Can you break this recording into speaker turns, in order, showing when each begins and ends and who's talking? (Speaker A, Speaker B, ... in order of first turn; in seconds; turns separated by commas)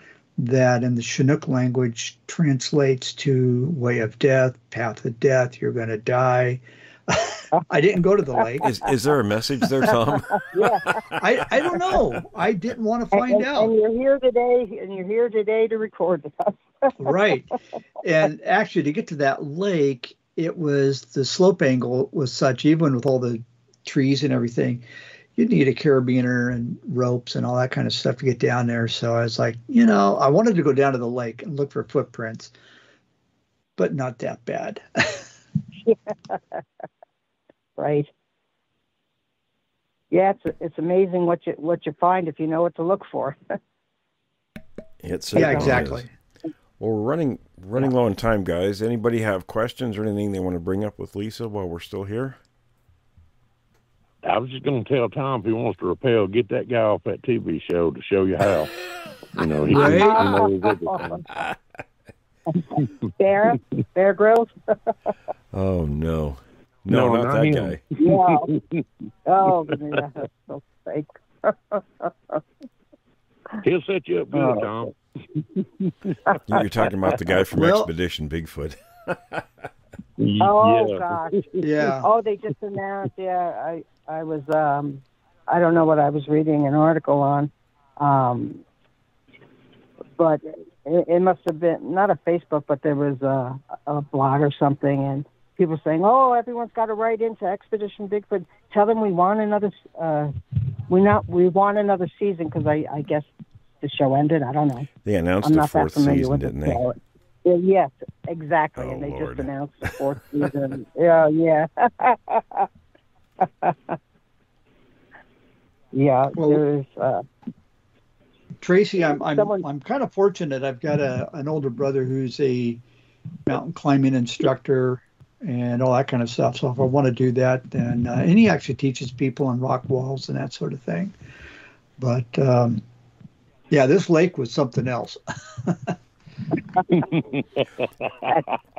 Speaker A: 0.4-8.7, Speaker B: 8.6-11.2, Speaker C: 10.5-11.0, Speaker A: 11.2-13.7, Speaker C: 13.1-16.9, Speaker A: 17.0-24.9, Speaker A: 25.4-32.5, Speaker A: 33.8-35.3, Speaker C: 35.9-36.6, Speaker C: 37.8-38.1, Speaker C: 40.1-43.4, Speaker B: 45.0-46.1, Speaker A: 45.3-46.1, Speaker B: 46.8-52.4, Speaker D: 54.2-58.7, Speaker D: 59.4-61.2, Speaker A: 59.7-60.5, Speaker C: 59.7-61.2, Speaker C: 62.5-64.9, Speaker B: 65.5-67.8, Speaker D: 66.9-68.8, Speaker C: 68.0-68.5, Speaker C: 69.3-72.4, Speaker D: 73.6-74.9, Speaker C: 74.3-74.6, Speaker D: 76.0-76.4, Speaker B: 76.5-79.4, Speaker A: 77.5-77.9, Speaker D: 80.2-81.7, Speaker C: 80.4-88.6, Speaker A: 81.6-82.1, Speaker C: 90.2-100.3, Speaker C: 100.9-103.3, Speaker C: 103.8-104.9, Speaker B: 105.0-106.8, Speaker C: 105.4-112.7, Speaker B: 108.8-109.5, Speaker C: 113.4-114.0, Speaker C: 115.9-117.2, Speaker A: 116.4-116.6, Speaker A: 118.6-122.8, Speaker C: 119.3-119.6, Speaker A: 123.5-131.2, Speaker A: 132.0-132.8, Speaker A: 133.7-135.9, Speaker D: 136.9-138.4